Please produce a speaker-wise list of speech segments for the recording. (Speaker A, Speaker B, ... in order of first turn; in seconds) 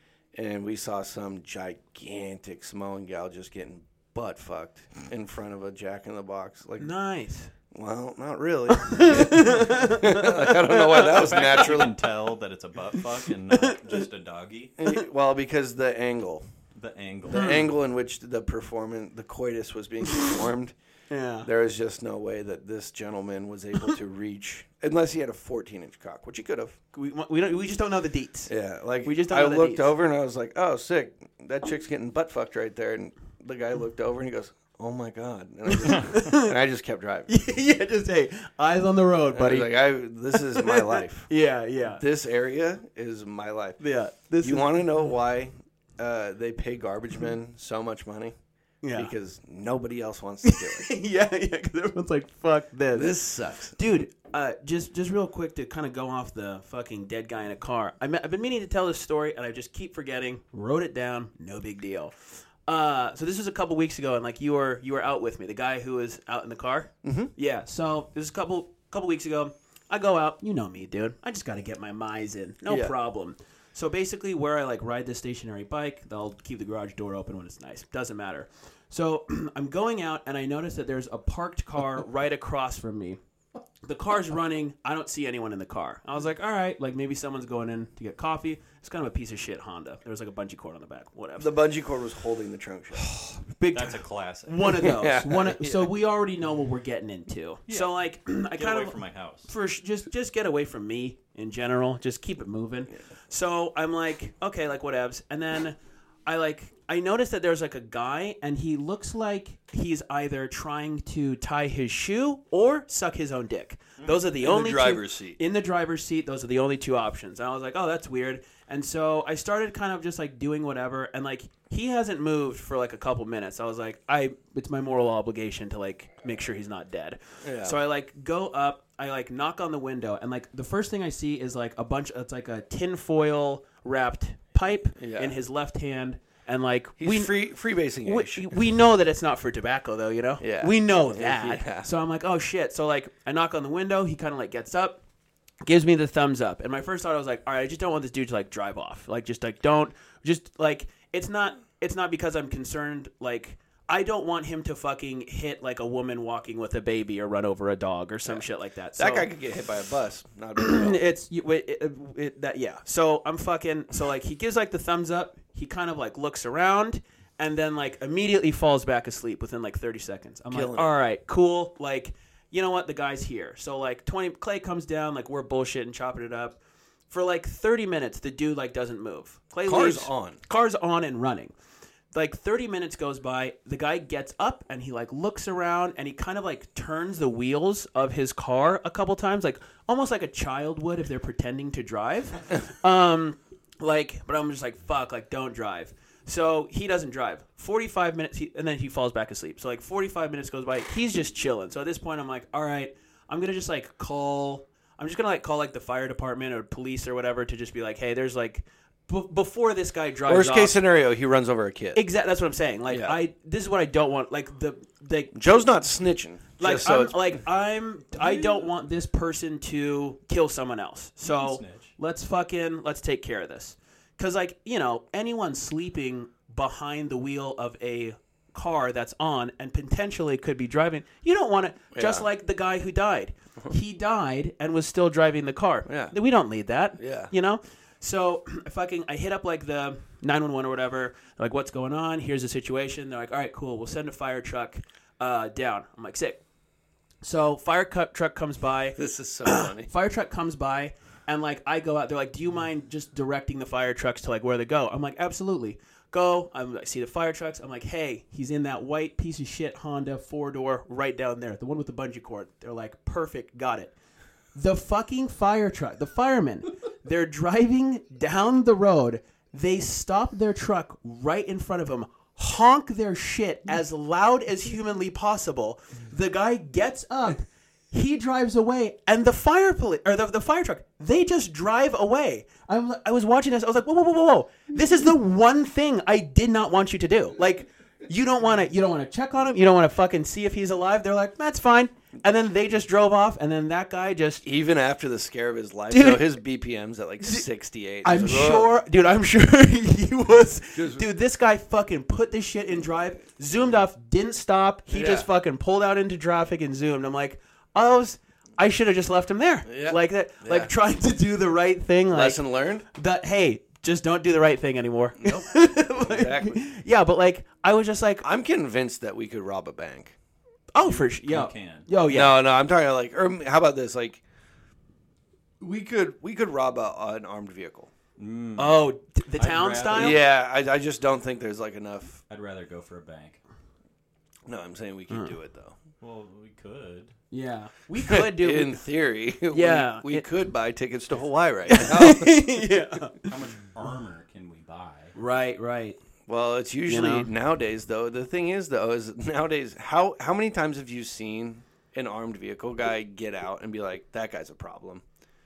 Speaker A: 0.3-6.9, 7.7-12.0, 14.8-16.5, 17.3-20.8, 21.4-26.8, 28.5-37.3, 39.3-41.3, 41.9-43.8, 44.4-48.4, 48.9-50.9, 52.9-53.8, 67.0-67.3, 72.7-73.0, 91.4-93.1, 94.6-95.9, 114.4-115.4, 127.4-127.8, 135.0-135.4, 137.0-138.6, 140.4-141.9, 159.0-161.0, 170.5-170.9, 179.7-180.4, 210.3-212.0, 212.9-213.2, 215.3-217.4, 231.9-232.3, 235.9-236.1, 237.0-237.3, 249.0-249.9, 294.4-298.7, 300.7-301.1, 304.9-305.3, 309.7-310.7, 312.1-312.9, 315.2-316.6, 318.2-320.1, 322.1-324.2, 325.6-327.9, 329.9-332.2, 334.5-335.8, 338.0-342.5, 346.3-355.0
Speaker B: 6.8-7.5, 8.8-11.1, 13.5-14.0, 17.3-17.7, 21.1-21.5, 26.9-28.5, 29.0-29.9, 35.7-36.5, 37.3-39.8, 40.3-42.0, 43.8-44.8, 48.8-49.1, 50.4-53.2, 53.7-83.2, 83.8-91.5, 93.6-137.4, 138.0-145.0, 145.6-159.3, 160.6-176.6, 177.1-181.5, 182.1-210.8, 211.9-215.7, 216.6-246.4, 247.2-263.9, 264.6-294.4, 295.9-296.4, 298.0-318.2, 320.7-322.4, 328.6-330.2, 337.3-338.8, 339.5-340.3, 341.7-343.3, 345.2-346.0, 346.9-347.3
Speaker C: 10.9-14.8, 16.8-17.6, 93.7-94.8, 97.7-97.9, 98.5-99.5, 218.2-218.7, 221.2-221.9, 320.8-321.9, 328.2-330.2, 332.3-333.4, 336.0-337.2, 343.2-345.1